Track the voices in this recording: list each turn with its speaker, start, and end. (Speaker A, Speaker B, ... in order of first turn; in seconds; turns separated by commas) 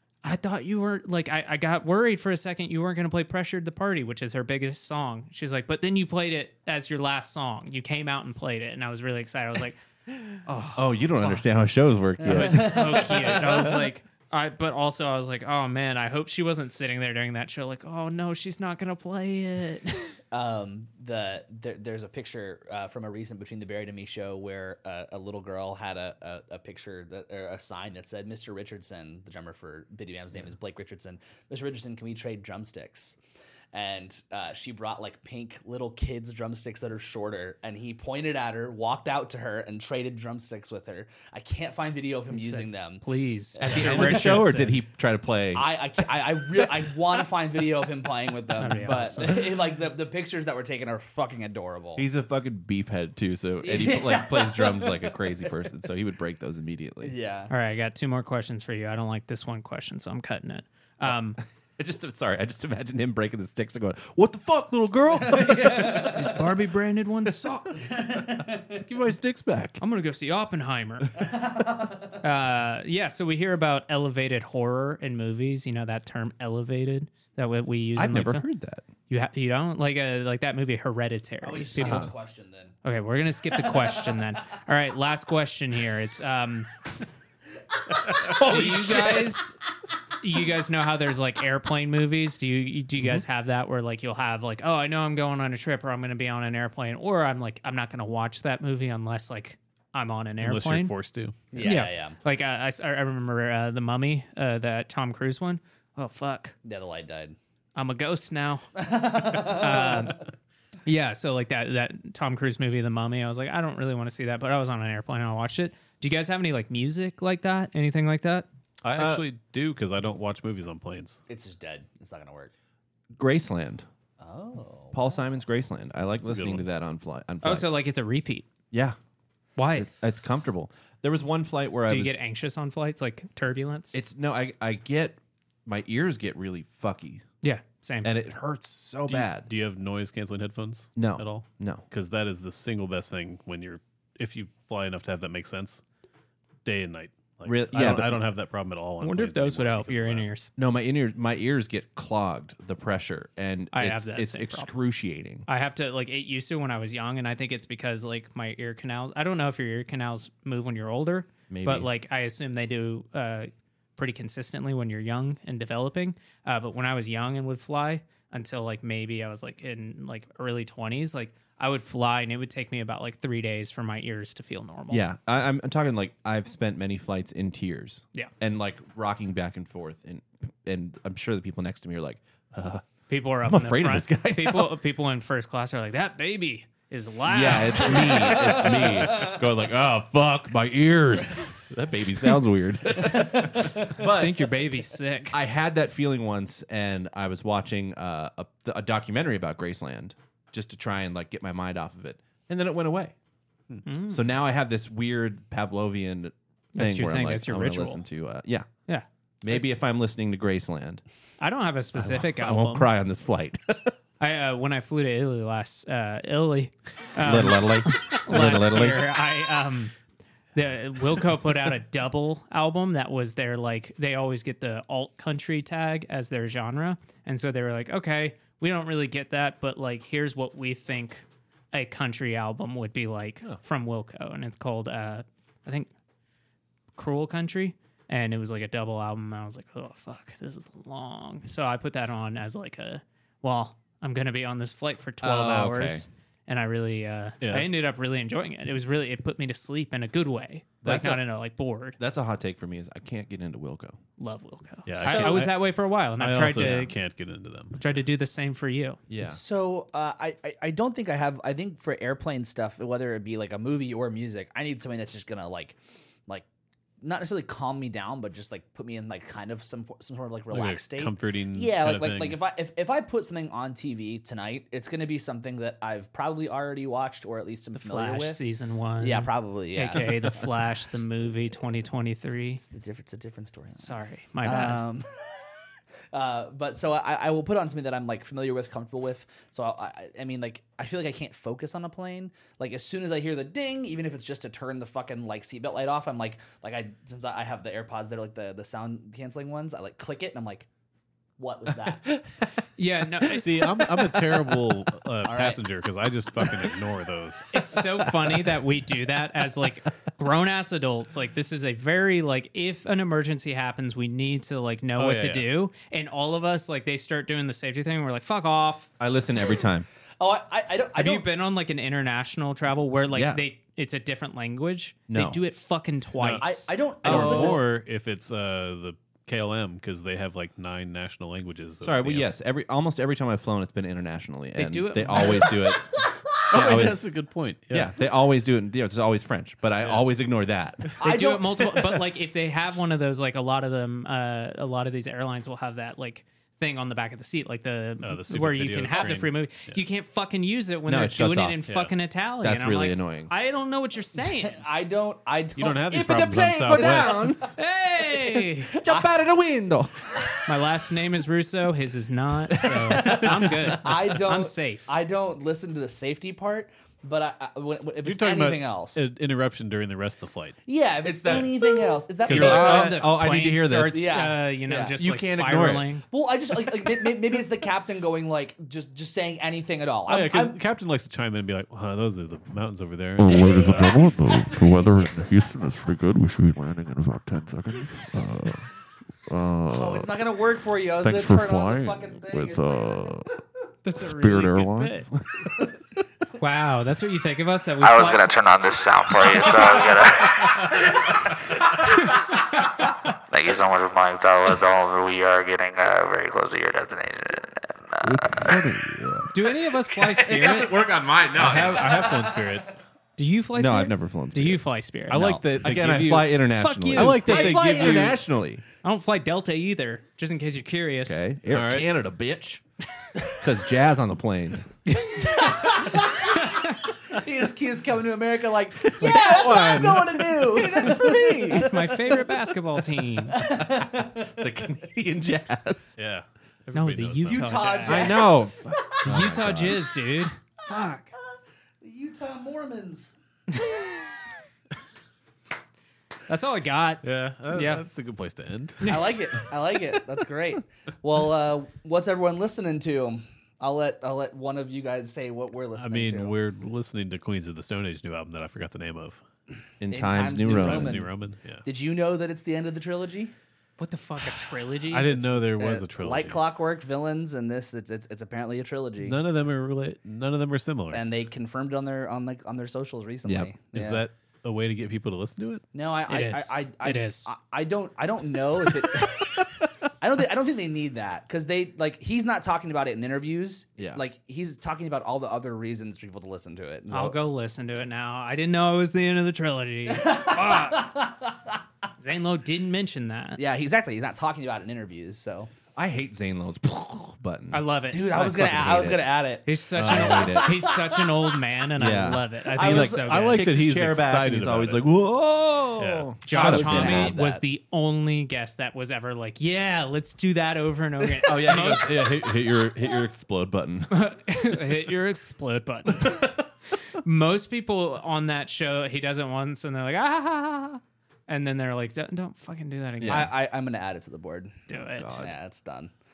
Speaker A: 0.2-9.8, Speaker A: 10.4-11.4, Speaker B: 10.7-13.4, Speaker C: 12.2-13.8, Speaker A: 12.2-20.1, Speaker C: 20.3-33.2, Speaker C: 33.7-43.0, Speaker A: 42.3-44.8, Speaker C: 43.5-44.4, Speaker B: 43.6-45.7, Speaker C: 45.5-52.0, Speaker A: 48.6-49.4, Speaker B: 48.9-49.2, Speaker B: 52.0-57.1, Speaker C: 53.6-55.2, Speaker C: 57.0-57.5, Speaker A: 57.5-61.4, Speaker B: 61.8-66.4, Speaker C: 65.2-66.4, Speaker A: 66.1-67.8, Speaker C: 67.8-68.8, Speaker B: 68.7-69.8, Speaker A: 69.8-71.3, Speaker C: 71.1-72.2, Speaker A: 72.2-78.4, Speaker B: 78.0-78.8, Speaker A: 79.1-82.1, Speaker C: 81.4-82.8, Speaker B: 81.8-82.1, Speaker A: 82.8-86.7, Speaker C: 83.6-84.2, Speaker C: 87.9-88.5, Speaker B: 88.2-89.3, Speaker A: 88.3-89.6, Speaker A: 90.2-100.9, Speaker B: 93.0-93.2, Speaker D: 100.4-101.5, Speaker C: 101.5-102.2, Speaker A: 101.6-106.5, Speaker C: 106.6-107.3, Speaker A: 107.8-108.7, Speaker C: 108.8-110.2, Speaker A: 109.3-110.2, Speaker A: 110.8-118.5, Speaker D: 118.8-121.2, Speaker B: 118.9-119.2, Speaker C: 121.3-122.5, Speaker B: 123.1-123.8, Speaker C: 124.2-125.2, Speaker B: 124.9-127.8, Speaker D: 126.2-126.6, Speaker A: 127.4-128.4, Speaker B: 128.7-129.0, Speaker A: 129.6-129.9, Speaker B: 129.8-132.2, Speaker A: 131.9-134.0, Speaker B: 133.9-137.2, Speaker A: 137.4-138.2, Speaker B: 138.0-139.5, Speaker D: 139.1-145.8, Speaker B: 140.9-141.8, Speaker D: 146.6-150.3, Speaker B: 147.4-148.2, Speaker A: 149.0-150.5, Speaker B: 150.6-155.4, Speaker A: 153.7-154.7, Speaker A: 155.5-175.1, Speaker B: 161.5-161.9, Speaker B: 174.9-182.8, Speaker A: 183.1-188.8, Speaker B: 183.4-184.8, Speaker B: 187.3-194.5, Speaker C: 188.0-189.4, Speaker C: 193.1-193.6, Speaker A: 193.9-195.4, Speaker B: 195.3-203.1, Speaker A: 203.8-204.2, Speaker B: 204.1-208.7, Speaker A: 206.7-208.0, Speaker B: 209.4-211.0, Speaker A: 211.4-212.9, Speaker B: 211.9-213.9, Speaker A: 214.2-219.9, Speaker B: 217.2-219.1, Speaker A: 220.5-235.9, Speaker A: 236.9-252.0, Speaker B: 245.2-246.1, Speaker D: 247.4-247.7, Speaker B: 250.8-251.2, Speaker B: 252.0-254.0, Speaker A: 254.2-257.0, Speaker D: 254.8-257.9, Speaker B: 255.0-255.3, Speaker A: 257.8-259.0, Speaker B: 259.1-259.4, Speaker C: 259.2-266.4, Speaker C: 267.0-278.4, Speaker D: 270.5-272.4, Speaker A: 277.7-282.6, Speaker C: 279.0-280.4, Speaker C: 282.6-285.1, Speaker A: 283.8-284.8, Speaker C: 286.1-300.7, Speaker C: 301.4-302.1, Speaker A: 302.8-303.5, Speaker D: 303.3-307.5, Speaker C: 305.2-305.6, Speaker A: 307.5-318.9, Speaker D: 315.0-315.5, Speaker B: 319.0-319.9, Speaker C: 320.2-321.3, Speaker A: 320.9-326.7, Speaker B: 323.1-323.4, Speaker B: 325.1-325.4, Speaker D: 326.2-326.5, Speaker C: 326.4-327.6, Speaker D: 327.0-332.3, Speaker B: 327.1-327.5, Speaker B: 331.8-337.0, Speaker A: 334.6-335.6, Speaker D: 336.5-337.9, Speaker B: 337.7-340.9, Speaker D: 339.8-340.1, Speaker C: 341.0-342.0, Speaker A: 341.0-354.6, Speaker D: 348.0-349.8, Speaker B: 350.9-351.6, Speaker D: 351.7-351.9, Speaker B: 352.4-353.3, Speaker C: 354.4-357.5, Speaker D: 355.6-357.2, Speaker B: 356.7-360.4, Speaker A: 357.5-358.7, Speaker A: 360.4-364.9, Speaker B: 362.6-364.0, Speaker C: 362.9-369.1, Speaker D: 368.0-370.6, Speaker C: 370.7-373.0, Speaker B: 371.0-371.6, Speaker D: 372.3-373.0, Speaker B: 372.3-375.9, Speaker A: 372.3-376.0, Speaker C: 373.9-374.9, Speaker C: 376.1-380.6, Speaker D: 380.1-384.1, Speaker E: 383.2-388.7, Speaker C: 383.3-385.4, Speaker E: 389.3-390.1, Speaker C: 389.7-393.1, Speaker E: 390.9-393.3, Speaker A: 393.8-395.1, Speaker E: 393.9-395.1, Speaker A: 396.4-398.3, Speaker F: 397.8-401.2, Speaker A: 401.8-402.7, Speaker F: 402.0-408.6, Speaker E: 408.0-409.3, Speaker A: 409.3-410.8, Speaker B: 409.9-412.2, Speaker D: 411.3-412.8, Speaker C: 411.9-412.6, Speaker A: 413.2-415.4, Speaker B: 413.5-418.6, Speaker D: 415.1-416.4, Speaker A: 416.6-418.1, Speaker D: 416.9-418.2, Speaker A: 418.8-421.2, Speaker B: 421.0-422.6, Speaker D: 421.5-421.9, Speaker B: 423.3-424.7, Speaker A: 424.9-426.8, Speaker C: 425.2-432.2, Speaker B: 428.9-431.8, Speaker A: 429.0-429.5, Speaker A: 431.5-433.4, Speaker C: 433.3-434.4, Speaker B: 433.4-436.0, Speaker D: 436.0-437.7, Speaker A: 436.7-438.2, Speaker C: 437.2-438.9, Speaker B: 437.8-439.9, Speaker A: 439.0-441.1, Speaker C: 441.8-443.1, Speaker A: 446.3-447.8, Speaker D: 447.0-449.4, Speaker A: 448.8-449.2, Speaker C: 448.8-456.3, Speaker D: 455.8-459.2, Speaker B: 459.8-461.0, Speaker C: 459.9-461.1, Speaker D: 460.5-461.6, Speaker C: 461.6-463.3, Speaker A: 463.8-465.2, Speaker D: 464.9-466.4, Speaker C: 465.1-469.2, Speaker D: 469.0-471.0, Speaker C: 470.9-474.0, Speaker B: 473.2-473.5, Speaker D: 473.7-475.6, Speaker C: 475.7-479.4, Speaker A: 476.1-477.3, Speaker C: 480.0-487.2, Speaker B: 483.8-484.0, Speaker A: 486.9-490.9, Speaker C: 489.9-491.5, Speaker A: 492.0-493.4, Speaker C: 493.4-495.5, Speaker B: 495.7-499.1, Speaker A: 497.5-498.1, Speaker C: 497.9-501.1, Speaker A: 499.4-503.4, Speaker D: 499.8-500.3, Speaker B: 499.8-500.7, Speaker B: 501.8-507.1, Speaker D: 502.6-504.9, Speaker D: 505.8-506.1, Speaker A: 506.2-512.1, Speaker C: 506.2-507.4, Speaker B: 511.2-513.9, Speaker A: 513.9-516.4, Speaker A: 517.0-523.3, Speaker B: 523.0-523.3, Speaker C: 523.0-524.6, Speaker A: 524.7-525.3, Speaker B: 525.0-525.4, Speaker C: 525.2-525.9